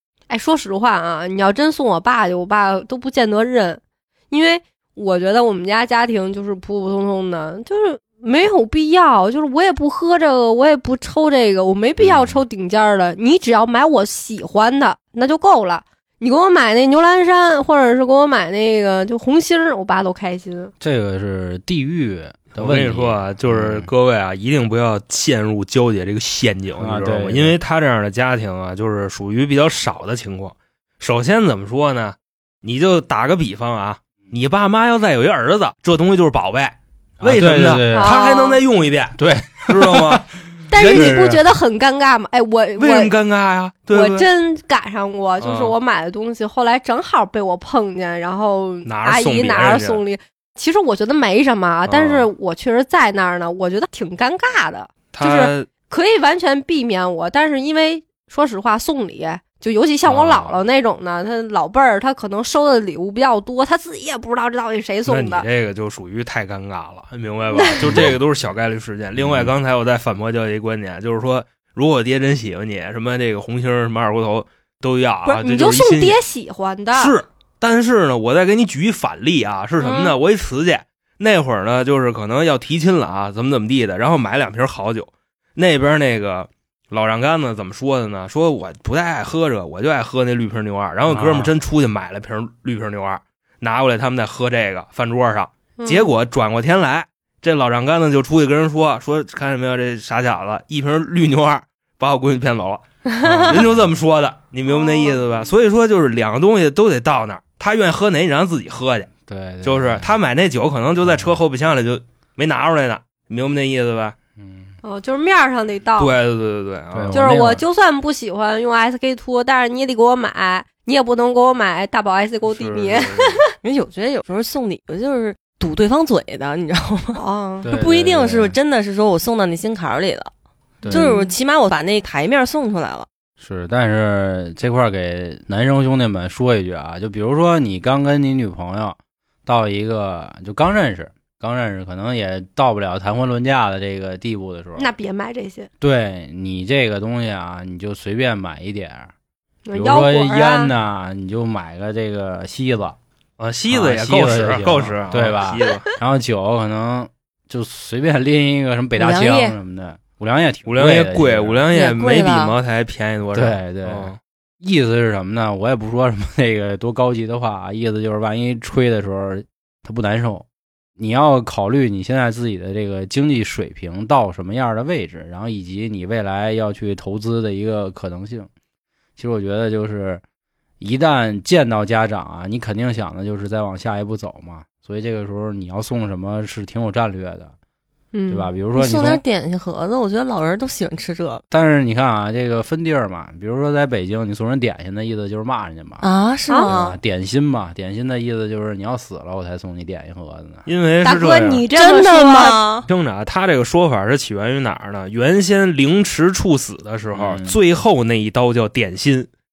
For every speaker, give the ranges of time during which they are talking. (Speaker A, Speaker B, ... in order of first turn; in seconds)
Speaker A: 0.3-20.7, 37.9-38.6, 40.7-43.1, 43.9-65.5, 67.5-68.1, 75.3-77.1, 95.8-96.1, 104.7-105.2, 114.8-116.1, 117.1-123.5, 127.2-127.7, 130.9-131.3, 144.8-145.7, 149.7-150.7, 188.1-188.5, 201.0-202.6
Speaker B: 12.0-12.4, 20.8-23.9, 26.8-27.6, 37.2-38.2, 39.2-40.2, 40.8-41.4, 67.8-68.2, 69.2-69.5, 91.1-91.5, 103.2-103.8, 109.3-110.1, 111.0-111.4, 114.4-114.7, 116.9-117.6, 122.5-123.4, 127.6-128.6, 130.8-131.1, 133.4-144.9, 145.8-149.1, 149.7-153.0, 153.7-161.6, 163.3-170.5, 171.0-178.5, 179.2-180.2, 180.8-187.5, 188.3-189.2, 191.5-196.1, 196.7-200.7, 207.1-207.6
Speaker C: 22.6-41.4, 42.8-44.3, 45.4-45.8, 48.9-50.0, 51.9-52.3, 55.1-55.7, 60.1-60.6, 65.1-76.2, 77.0-102.8, 103.4-109.1, 109.6-114.2, 116.0-117.2, 153.4-155.9, 160.7-164.2, 200.7-201.7, 202.9-209.3
Speaker D: 79.8-80.1, 123.6-130.3, 130.9-133.1, 159.0-159.6, 161.7-162.6, 188.8-191.4, 196.0-197.0, 201.8-202.9